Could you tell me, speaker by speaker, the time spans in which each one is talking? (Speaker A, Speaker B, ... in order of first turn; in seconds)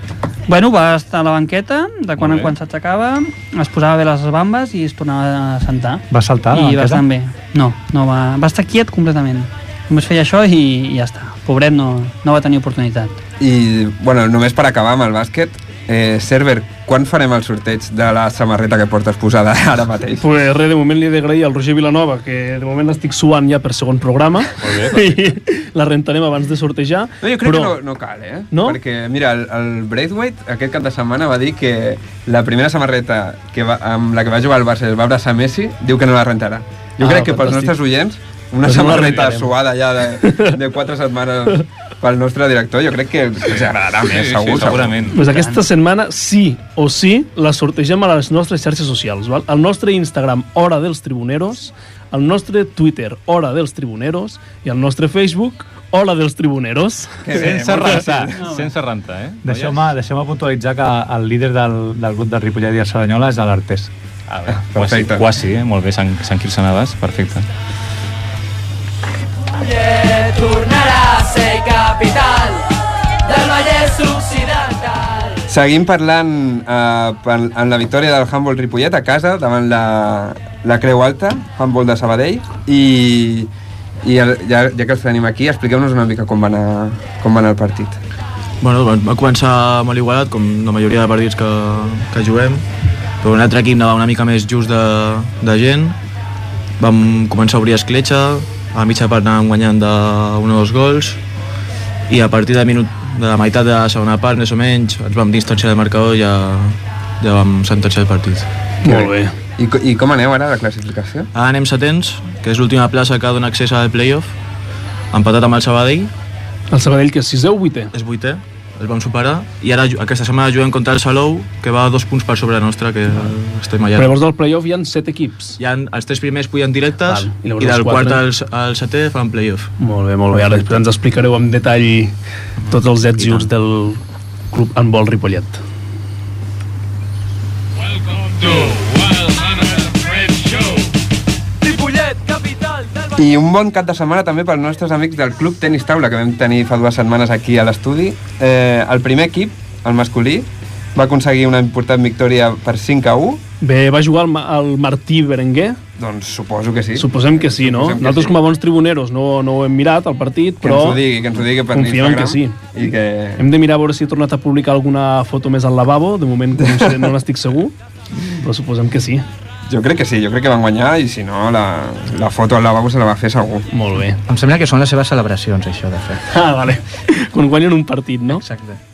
Speaker A: 0.5-13.1, 45.2-45.6, 58.4-58.7
Speaker B: 2.2-2.5, 24.6-25.2, 43.5-45.2, 57.3-59.9, 64.3-67.5
Speaker C: 6.1-7.0, 59.4-63.9
Speaker D: 13.4-20.2, 27.2-45.0, 57.2-58.4, 64.5-65.2, 75.5-83.5, 84.0-88.0, 109.6-111.3, 143.2-153.4, 156.0-158.4, 160.6-163.4, 169.7-173.7
Speaker E: 20.2-27.8, 28.5-28.8, 37.0-37.8, 38.6-39.5, 40.2-40.5, 45.1-57.4, 108.8-109.3, 116.7-117.9, 124.0-125.6, 127.0-128.2, 129.8-132.1, 132.7-134.0, 134.5-135.6, 153.6-155.8, 157.0-161.0, 161.7-162.7, 163.4-167.8, 168.3-169.2, 173.7-174.2, 176.3-178.4
Speaker F: 69.6-72.6, 73.2-75.3, 138.0-140.9, 141.6-143.1
Speaker G: 88.6-92.6, 93.2-96.0, 96.8-101.2, 102.1-109.0, 111.3-114.3, 115.1-116.1, 117.9-124.2, 125.6-129.7
Speaker H: 174.3-176.2, 178.3-178.8